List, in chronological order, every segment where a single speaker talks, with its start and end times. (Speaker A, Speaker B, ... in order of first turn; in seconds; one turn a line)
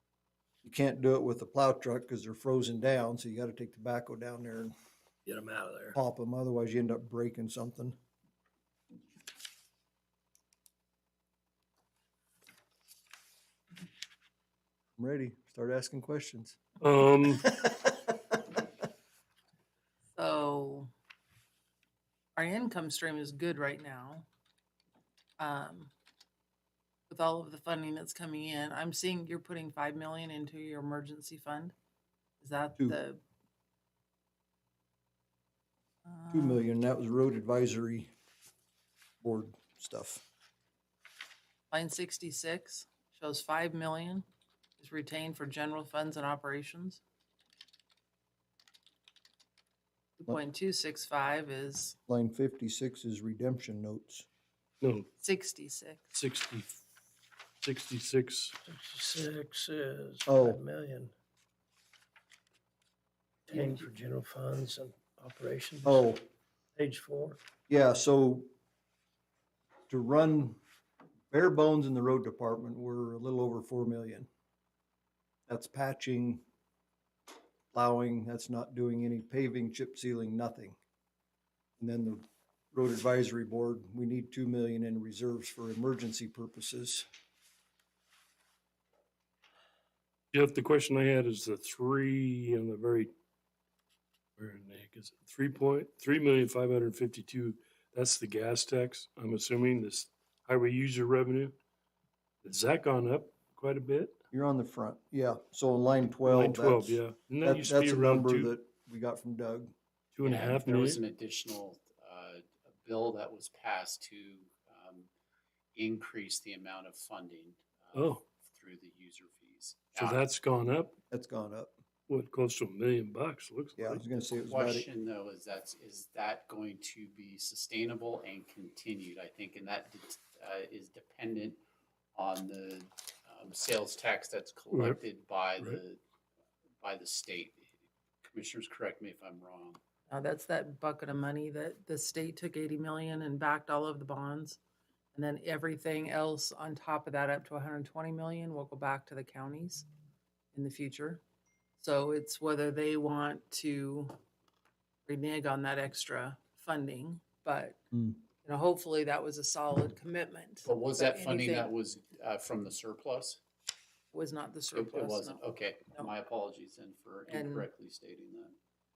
Speaker A: 0.6-4.7
Speaker B: 5.2-6.0
Speaker A: 5.9-8.0
Speaker A: 15.0-16.6
Speaker C: 16.8-17.4
Speaker A: 17.4-18.1
Speaker D: 20.1-20.9
Speaker D: 22.4-24.2
Speaker D: 25.4-25.9
Speaker D: 27.1-31.7
Speaker D: 32.4-33.2
Speaker D: 36.0-36.6
Speaker A: 36.3-38.1
Speaker A: 39.2-40.2
Speaker D: 41.7-44.2
Speaker D: 44.8-47.0
Speaker D: 50.2-52.0
Speaker A: 52.1-54.3
Speaker C: 54.8-55.1
Speaker D: 55.2-56.1
Speaker C: 56.1-56.8
Speaker C: 57.6-58.5
Speaker B: 58.6-61.1
Speaker A: 60.2-60.6
Speaker B: 63.5-66.1
Speaker A: 65.8-66.2
Speaker B: 66.8-67.4
Speaker A: 67.7-68.5
Speaker A: 69.9-70.6
Speaker A: 71.3-74.3
Speaker A: 75.5-76.4
Speaker A: 77.7-80.8
Speaker A: 81.8-87.1
Speaker C: 90.3-93.1
Speaker C: 94.4-101.5
Speaker C: 102.4-104.2
Speaker A: 104.3-109.7
Speaker C: 106.2-108.5
Speaker C: 110.1-111.0
Speaker E: 110.2-115.1
Speaker E: 115.7-120.2
Speaker C: 117.9-118.2
Speaker C: 119.9-121.0
Speaker A: 121.1-121.7
Speaker C: 122.1-124.0
Speaker A: 123.8-124.9
Speaker E: 124.5-131.6
Speaker E: 132.1-136.0
Speaker C: 134.7-135.0
Speaker E: 136.8-137.7
Speaker E: 138.2-139.8
Speaker D: 140.1-144.6
Speaker D: 145.1-149.8
Speaker D: 150.5-151.2
Speaker D: 151.8-154.2
Speaker D: 155.1-157.8
Speaker A: 157.9-158.2
Speaker D: 158.4-161.7
Speaker E: 160.6-163.4
Speaker D: 164.1-165.4
Speaker E: 164.7-168.5
Speaker D: 167.3-167.7